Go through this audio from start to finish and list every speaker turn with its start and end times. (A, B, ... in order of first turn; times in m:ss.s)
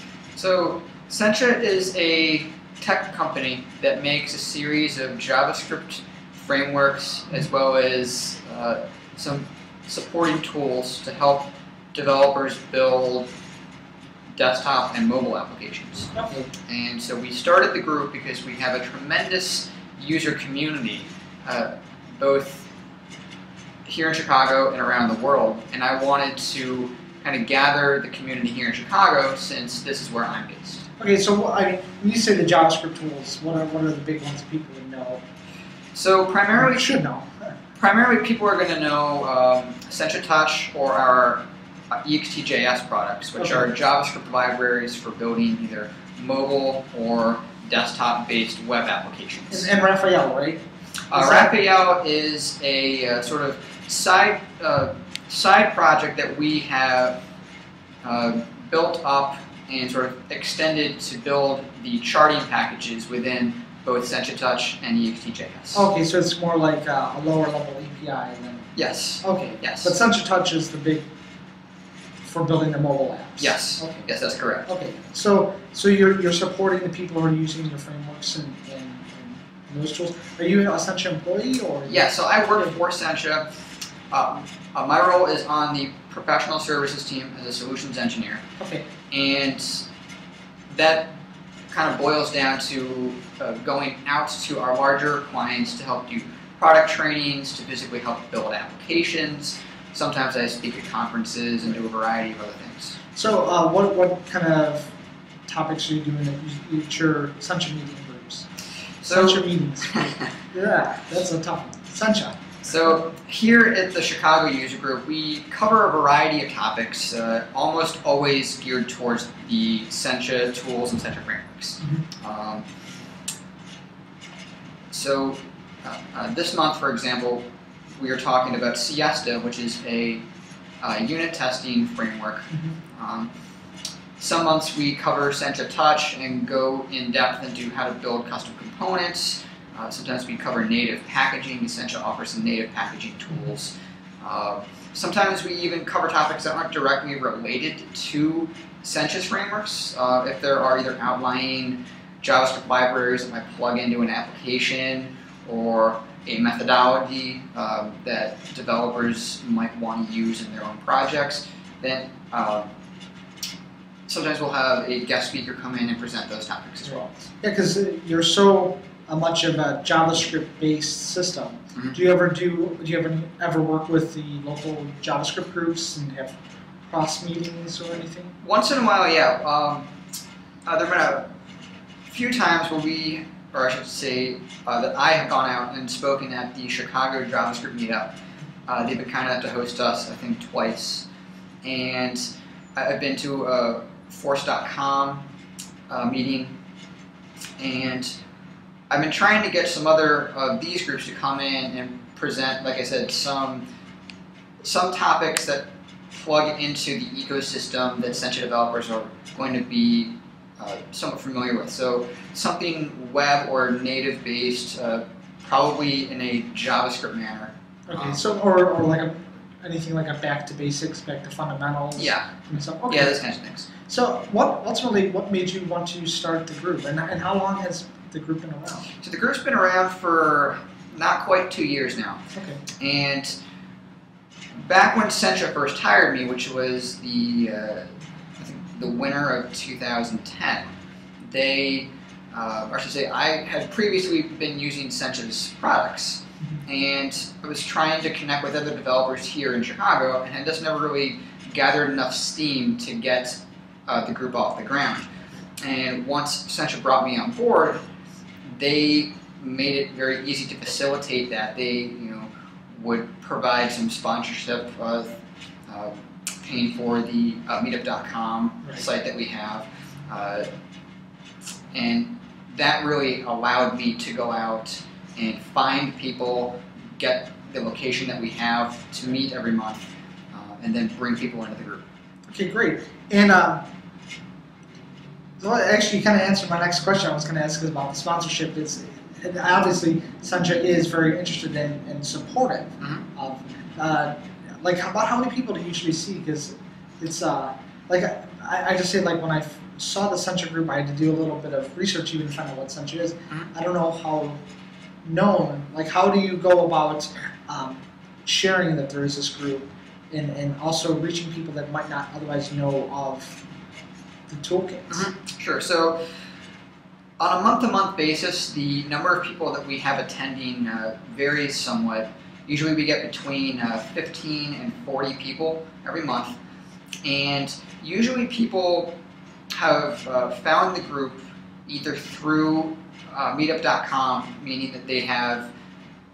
0:00.4-0:13.3 A
0:14.4-0:16.1 A
0:16.2-0:16.5 B
0:16.7-0:22.7 A
0:23.9-0:30.8 A
0:31.0-0:35.2 B
0:36.0-0:36.9 A
0:36.6-0:37.3 B
0:37.8-0:49.7 A
0:43.4-0:43.7 B
0:49.5-0:50.6 B
0:51.1-0:57.2 A
0:51.1-0:51.5 B
0:58.0-1:05.9 A
1:05.7-1:11.1 B
1:08.8-1:10.0 A
1:12.2-1:14.1 B
1:13.4-1:14.7 A
1:14.7-1:22.7 B
1:21.9-1:23.5 A
1:24.1-1:28.4 A
1:28.6-1:28.9 B
1:29.1-1:29.9 A
1:30.7-1:31.1 A
1:31.7-1:43.0 A
1:43.2-1:44.9 B
1:45.5-1:48.5 B
1:49.0-1:49.4 A
1:49.0-1:52.5 B
1:50.0-1:50.2 A
1:52.6-2:02.6 A
2:04.9-2:07.4 A
2:08.0-2:10.2 A
2:10.8-2:13.3 A
2:14.2-2:42.7 A
2:44.1-2:47.1 A
2:46.9-2:56.4 B
2:51.8-2:52.0 A
2:56.9-2:58.3 B
2:58.4-2:59.9 A
3:00.7-3:01.3 A
3:02.1-3:08.1 A
3:08.7-3:11.1 A
3:11.6-3:12.2 A
3:12.8-3:15.2 A
3:15.9-3:16.5 A
3:17.6-3:18.1 A
3:18.9-3:23.6 A
3:24.6-3:38.2 A
3:37.9-3:43.2 B
3:42.0-3:42.4 A
3:42.9-3:43.7 A
3:43.9-3:48.9 B
3:49.0-3:52.2 A
3:52.3-3:52.6 B
3:52.8-3:53.4 A
3:54.6-3:57.9 A
3:58.4-4:00.7 A
4:01.3-4:15.1 A
4:15.6-4:17.8 A
4:18.5-4:25.1 A
4:25.7-4:30.5 A
4:31.7-4:39.8 A
4:40.3-4:41.8 A
4:42.3-4:43.6 B
4:45.4-5:04.4 B
4:52.8-4:53.1 A
5:05.0-5:13.4 B
5:14.3-5:15.1 B
5:14.9-5:16.0 A
5:17.2-5:26.4 A
5:27.0-5:28.9 A
5:29.6-5:35.5 A